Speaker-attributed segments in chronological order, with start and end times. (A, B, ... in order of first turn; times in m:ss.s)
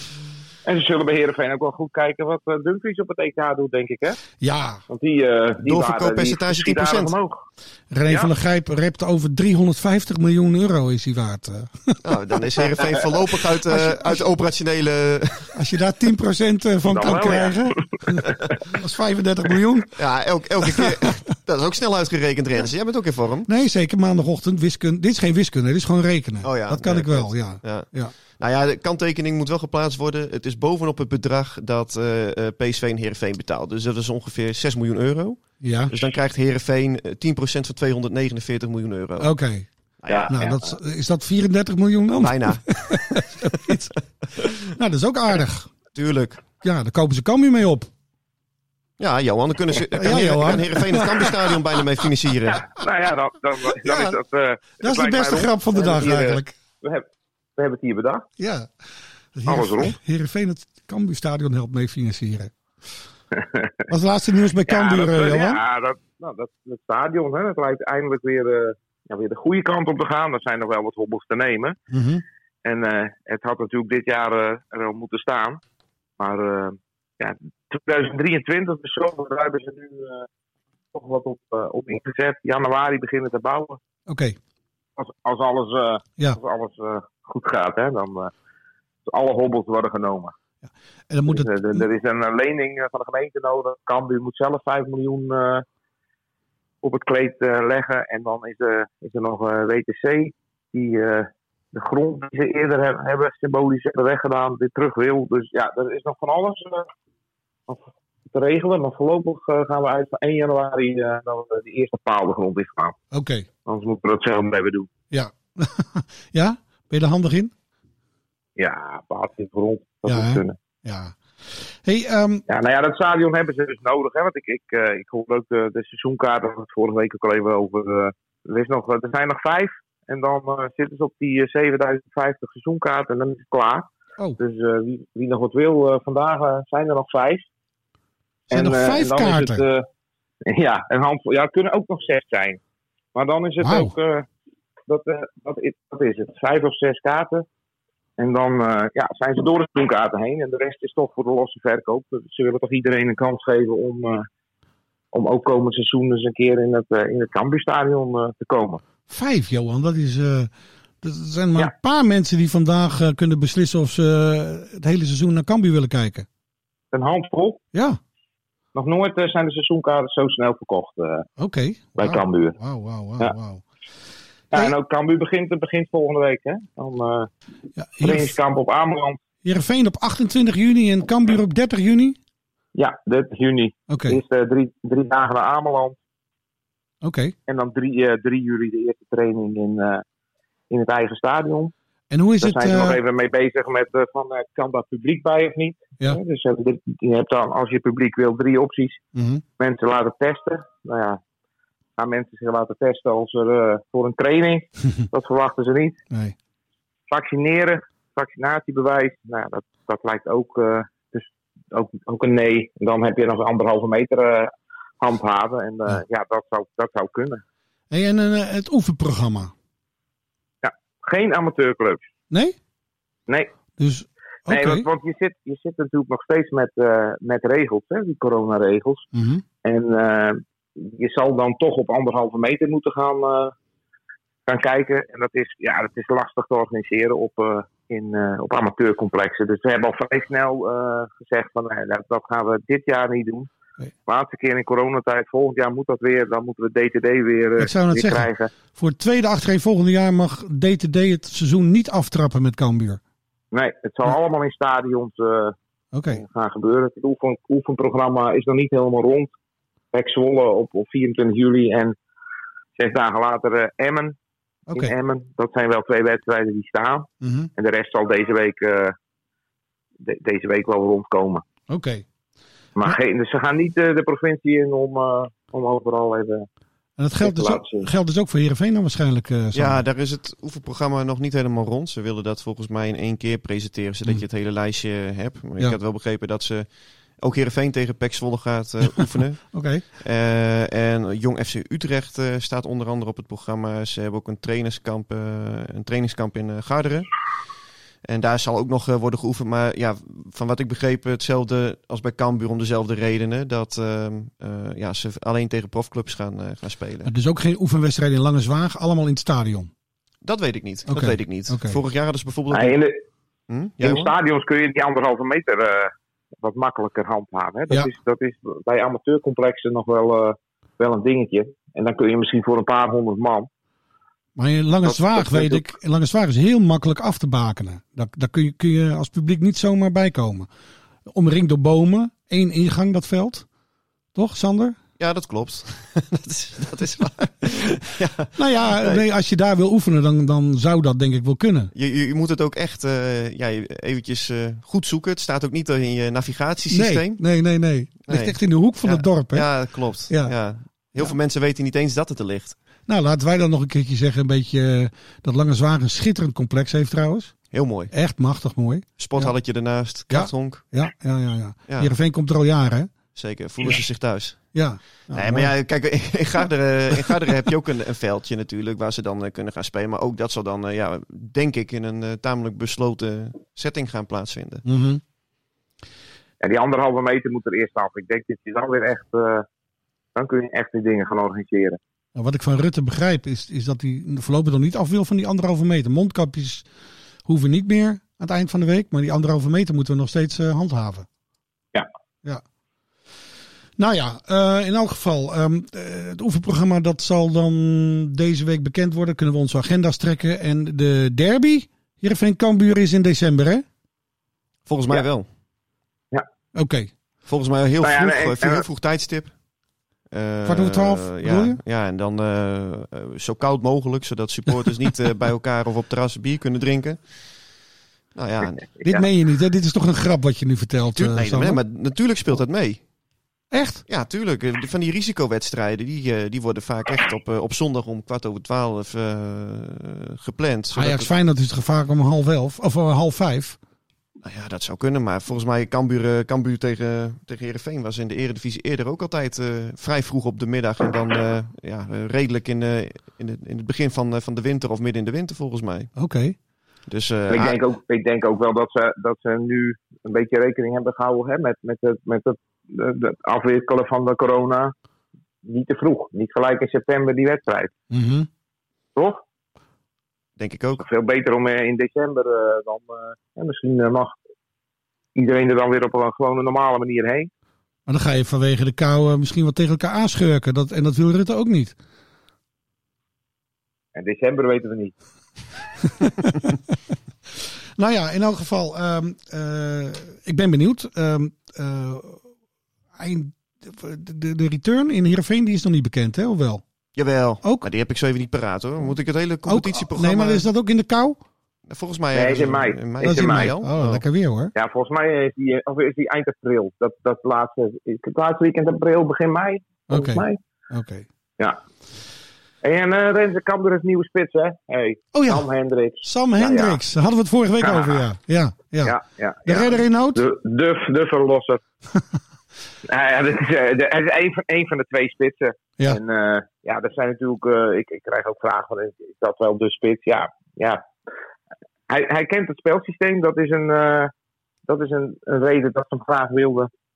0:00.6-0:04.2 A
0:04.4-0:04.8 B
0:04.9-0:07.4 A
0:05.6-0:07.1 C
0:07.9-0:12.0 B
0:12.0-0:15.6 C
0:13.6-0:14.2 B
0:15.5-0:20.0 B
0:16.9-0:17.8 A
0:20.0-0:23.5 C
0:20.8-0:21.0 B
0:23.5-0:28.1 B
0:26.4-0:39.3 C
0:35.6-0:35.9 B
0:39.2-0:39.7 B
0:40.0-0:40.5 C
0:40.1-0:40.6 A
0:40.3-0:43.9 B
0:42.2-0:43.2 C
0:44.6-0:45.7 B
0:45.9-0:46.4 C
0:46.6-0:47.9 B
0:49.0-0:52.6 C
0:49.9-0:51.3 B
0:52.5-0:57.0 A
0:53.8-0:54.1 B
0:54.8-0:56.5 B
0:57.6-0:58.3 A
0:58.4-0:58.7 B
0:59.3-1:02.5 B
0:59.5-1:00.0 A
1:03.3-1:03.7 A
1:03.9-1:05.6 B
1:04.6-1:11.8 A
1:11.9-1:12.2 B
1:12.6-1:15.6 A
1:16.2-1:20.3 A
1:20.9-1:23.8 A
1:24.1-1:24.4 B
1:25.0-1:28.3 A
1:29.1-1:30.3 A
1:30.6-1:31.8 B
1:31.3-1:35.6 A
1:36.8-1:46.9 A
1:47.7-1:53.0 A
1:53.1-1:53.5 B
1:53.6-1:54.9 A
1:55.1-1:57.5 B
1:58.6-2:00.5 A
2:00.0-2:02.4 B
2:02.5-2:17.4 A
2:18.5-2:19.6 B
2:18.5-2:19.8 A
2:20.4-2:22.6 A
2:23.1-2:24.2 A
2:23.6-2:23.9 B
2:24.9-2:27.4 A
2:28.2-2:34.2 A
2:35.1-2:38.8 A
2:39.1-2:40.5 B
2:41.0-2:46.2 B
2:46.9-2:47.6 A
2:47.7-2:48.0 B
2:48.7-2:51.2 A
2:51.4-2:53.6 B
2:52.0-2:52.6 A
2:54.5-2:57.3 A
2:57.8-2:58.4 B
2:58.0-2:59.2 A
2:59.4-3:02.2 B
3:02.7-3:06.0 A
3:03.9-3:04.2 B
3:07.0-3:07.3 B
3:07.5-3:10.0 A
3:10.7-3:11.7 A
3:12.1-3:13.0 B
3:12.4-3:19.0 A
3:19.1-3:19.4 B
3:19.6-3:21.2 A
3:22.0-3:26.0 A
3:27.1-3:37.4 A
3:37.9-3:39.5 B
3:40.6-3:42.0 A
3:42.3-3:42.6 B
3:43.8-3:44.8 B
3:44.5-3:49.0 A
3:49.1-3:49.4 B
3:49.6-3:53.5 A
3:54.5-4:03.5 A
4:04.1-4:08.5 A
4:07.6-4:13.0 B
4:13.5-4:15.5 A
4:15.9-4:16.2 B
4:16.1-4:19.3 A
4:19.9-4:21.9 A
4:22.8-4:24.1 A
4:24.7-4:28.9 A
4:27.2-4:27.5 B
4:30.0-4:31.4 A
4:31.7-4:32.0 B
4:32.8-4:36.5 A
4:37.0-4:39.8 B
4:37.2-4:37.9 A
4:39.5-4:46.7 C
4:47.2-4:57.1 C
4:49.5-4:49.8 B
4:58.0-5:07.1 C
5:07.0-5:09.7 B
5:10.2-5:12.8 C
5:10.9-5:11.8 B
5:12.5-5:13.0 A
5:13.5-5:14.1 C
5:13.8-5:23.5 A
5:24.4-5:30.5 B
5:24.8-5:25.6 A
5:31.1-5:33.5 B
5:34.1-5:34.8 B
5:35.0-5:39.0 C
5:38.3-5:41.7 B
5:41.7-5:47.2 C
5:46.7-5:49.5 B
5:48.0-5:52.6 C
5:50.1-5:50.3 B
5:52.9-5:57.3 B
5:57.5-5:57.9 C
5:57.9-5:59.3 B
5:59.0-6:00.6 C
6:00.1-6:02.9 B
6:03.1-6:04.5 C
6:04.5-6:05.5 B
6:05.1-6:14.6 C
6:14.6-6:15.0 B
6:16.4-6:19.4 A
6:20.1-6:21.8 A
6:22.1-6:26.7 B
6:27.2-6:31.1 B
6:33.8-6:43.6 B
6:44.6-6:45.3 C
6:46.5-6:46.9 B
6:47.2-6:49.3 C
6:47.8-6:48.6 A
6:50.1-6:57.0 C
6:50.4-6:51.6 B
6:58.1-6:58.7 C
6:58.8-7:01.6 B
7:01.0-7:02.8 C
7:03.5-7:03.8 B
7:03.9-7:11.1 C
7:10.7-7:13.6 B
7:14.2-7:25.9 C
7:26.0-7:26.4 B
7:26.9-7:27.6 C
7:27.3-7:34.7 A
7:35.4-7:37.7 A
7:37.9-7:38.3 B
7:39.0-7:39.2 A
7:40.4-7:40.8 C
7:40.8-7:44.2 A
7:45.1-7:47.3 A
7:47.9-7:51.8 B
7:53.9-7:54.9 A
7:56.0-7:56.6 B
7:57.8-8:02.2 B
8:03.0-8:06.6 B
8:06.9-8:10.5 C
8:07.4-8:07.7 B
8:09.5-8:11.2 B
8:11.7-8:14.0 C
8:12.1-8:13.5 A
8:13.0-8:14.5 B
8:14.5-8:20.4 A
8:19.9-8:21.1 B
8:22.6-8:26.8 A
8:25.1-8:25.4 B
8:26.0-8:30.2 B
8:27.6-8:28.0 A
8:28.8-8:31.6 A
8:32.9-8:40.8 A
8:41.9-8:44.1 A
8:44.7-8:46.7 A